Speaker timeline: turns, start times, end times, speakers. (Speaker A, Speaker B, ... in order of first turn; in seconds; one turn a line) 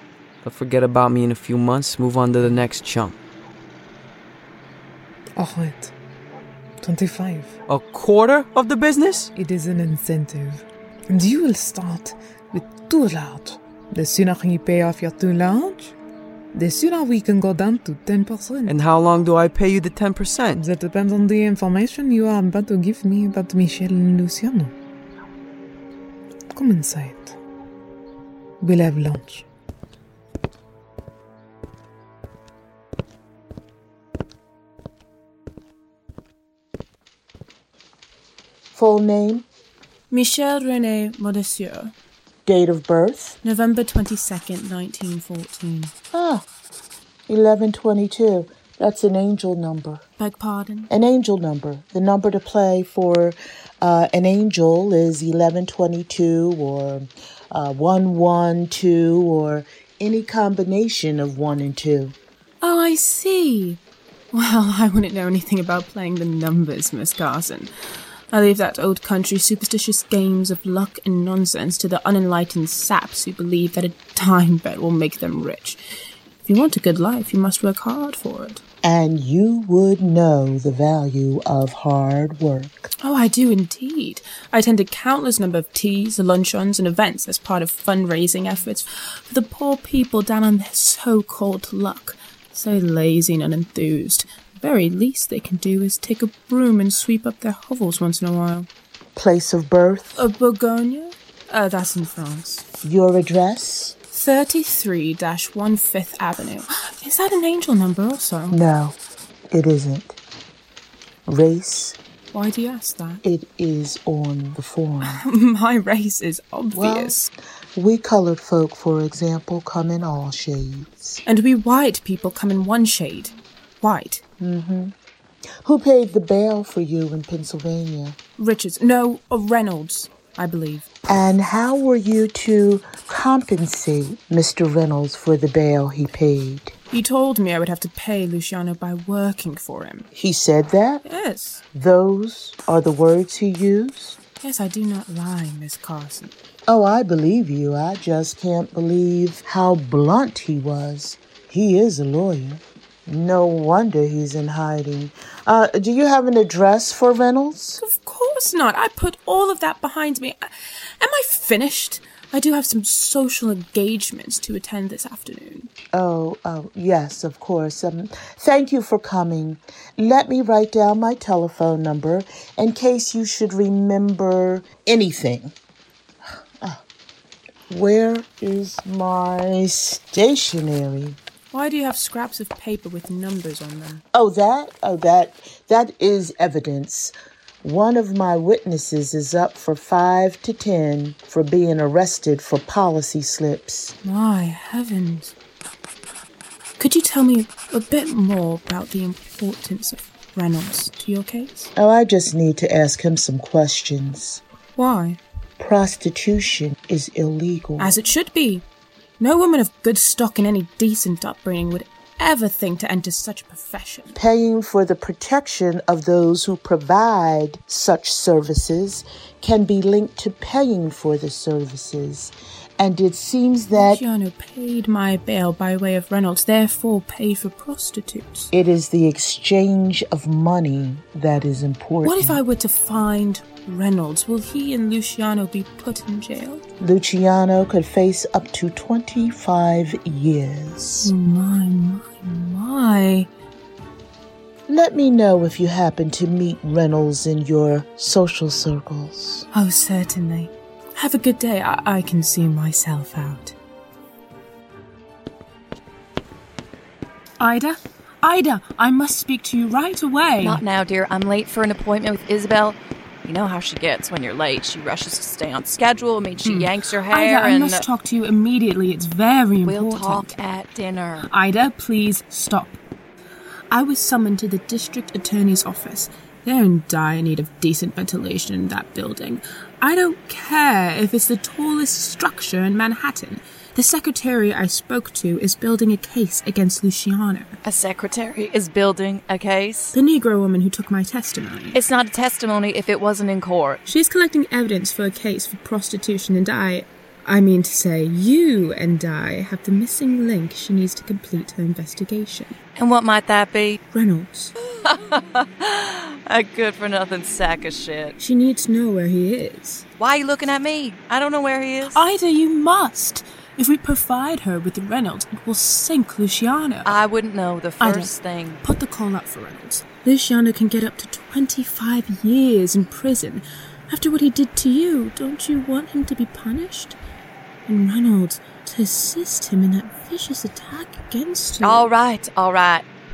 Speaker A: 0.4-3.2
Speaker B: 5.3-6.0
Speaker B: 6.8-7.6
Speaker A: 7.7-9.3
Speaker B: 9.3-16.0
Speaker B: 16.5-18.8
Speaker A: 18.7-20.6
Speaker B: 20.5-24.8
Speaker B: 26.5-27.4
Speaker B: 28.6-29.5
Speaker C: 38.7-39.5
Speaker D: 40.1-41.9
Speaker C: 42.5-43.4
Speaker D: 43.4-45.9
Speaker C: 46.1-46.5
Speaker C: 47.3-50.0
Speaker D: 50.2-50.9
Speaker C: 50.9-62.2
Speaker D: 62.6-63.8
Speaker D: 64.3-67.7
Speaker D: 68.3-75.8
Speaker D: 76.5-78.6
Speaker C: 78.8-82.9
Speaker D: 83.0-98.7
Speaker C: 99.2-100.2
Speaker D: 100.2-102.7
Speaker C: 102.8-104.0
Speaker D: 104.1-108.6
Speaker C: 108.5-109.0
Speaker C: 109.5-110.2
Speaker C: 111.3-112.0
Speaker D: 112.3-113.2
Speaker C: 113.2-115.2
Speaker D: 115.0-117.3
Speaker C: 116.7-121.2
Speaker D: 121.3-124.2
Speaker C: 124.4-124.9
Speaker C: 125.6-128.2
Speaker D: 128.4-130.9
Speaker C: 131.1-136.7
Speaker D: 136.9-140.1
Speaker C: 140.2-141.1
Speaker D: 141.1-141.6
Speaker C: 141.8-144.2
Speaker D: 144.4-146.3
Speaker C: 146.7-157.8
Speaker D: 157.8-165.7
Speaker C: 165.9-175.6
Speaker C: 177.7-181.2
Speaker D: 181.5-184.0
Speaker C: 184.1-193.9
Speaker D: 194.0-195.3
Speaker D: 196.8-201.7
Speaker C: 201.8-204.4
Speaker D: 204.8-205.2
Speaker C: 205.6-208.0
Speaker D: 207.8-208.7
Speaker D: 209.2-214.2
Speaker C: 214.1-224.0
Speaker D: 223.7-228.5
Speaker C: 228.5-232.4
Speaker D: 232.0-236.6
Speaker C: 236.8-241.1
Speaker D: 241.0-243.3
Speaker C: 244.7-249.5
Speaker D: 249.5-253.6
Speaker D: 257.4-260.6
Speaker E: 260.4-267.9
Speaker D: 266.4-270.4
Speaker E: 269.6-271.3
Speaker D: 271.2-272.8
Speaker D: 273.7-287.6
Speaker E: 287.6-289.9
Speaker D: 289.9-291.9
Speaker E: 291.7-293.8
Speaker D: 293.9-302.6
Speaker E: 302.8-303.8
Speaker D: 303.9-304.5
Speaker E: 304.9-308.1
Speaker D: 308.2-309.9
Speaker E: 310.0-312.0
Speaker D: 311.9-317.0
Speaker E: 316.9-318.6
Speaker D: 317.8-327.0
Speaker D: 327.7-331.9
Speaker E: 331.6-332.9